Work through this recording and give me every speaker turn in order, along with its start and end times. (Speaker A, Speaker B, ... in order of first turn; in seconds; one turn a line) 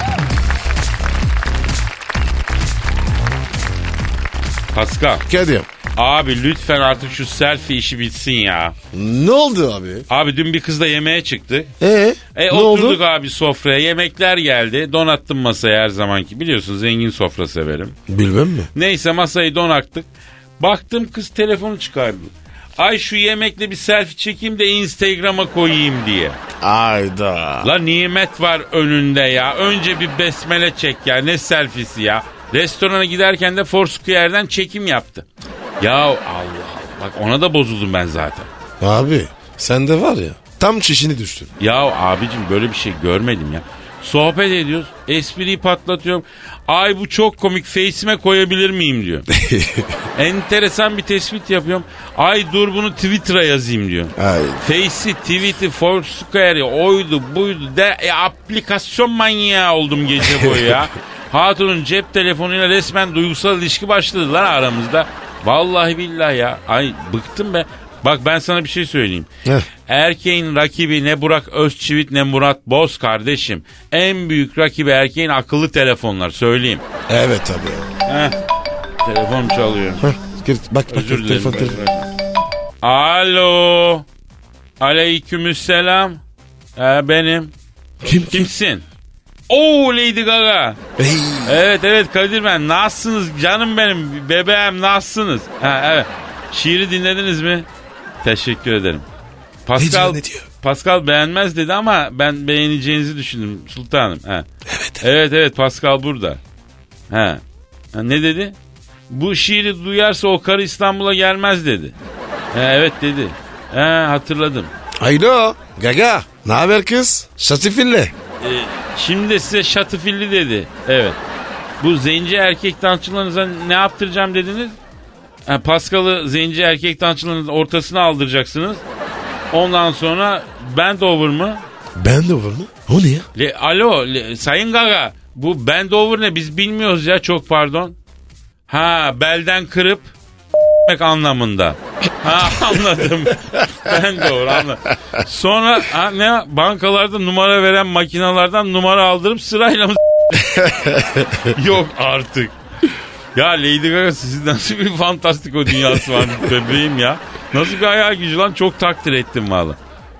Speaker A: 4.7-5.2
Speaker B: 5.3-5.7
Speaker A: 6.0-8.7
Speaker B: 8.9-10.1
Speaker A: 10.1-11.7
Speaker B: 11.8-13.0
Speaker A: 12.3-17.9
Speaker B: 18.1-18.7
Speaker A: 18.7-20.1
Speaker A: 20.6-26.4
Speaker B: 26.6-27.7
Speaker A: 27.6-35.2
Speaker A: 35.8-38.5
Speaker B: 38.8-41.5
Speaker A: 41.6-49.3
Speaker B: 49.3-50.0
Speaker A: 50.1-69.3
Speaker B: 54.2-54.6
Speaker B: 60.4-60.7
Speaker A: 69.9-76.8
Speaker B: 77.1-77.9
Speaker A: 78.0-78.3
Speaker A: 79.0-80.0
Speaker B: 80.0-81.9
Speaker A: 80.9-82.1
Speaker A: 82.8-84.0
Speaker A: 84.8-86.2
Speaker A: 86.8-87.5
Speaker B: 88.0-88.5
Speaker A: 88.3-88.8
Speaker A: 89.5-90.8
Speaker B: 91.0-91.6
Speaker A: 91.4-97.7
Speaker A: 98.2-99.0
Speaker A: 99.7-104.5
Speaker B: 99.8-100.5
Speaker B: 104.7-105.0
Speaker A: 105.0-106.4
Speaker A: 107.1-107.4
Speaker A: 107.9-108.5
Speaker A: 109.1-111.9
Speaker A: 112.5-114.7
Speaker B: 115.0-118.1
Speaker A: 118.4-121.2
Speaker A: 121.8-124.8
Speaker A: 125.5-128.8
Speaker A: 129.5-131.6
Speaker B: 131.9-133.3
Speaker A: 133.3-137.9
Speaker A: 138.7-140.1
Speaker A: 140.8-152.5
Speaker B: 150.6-151.2
Speaker A: 153.3-159.8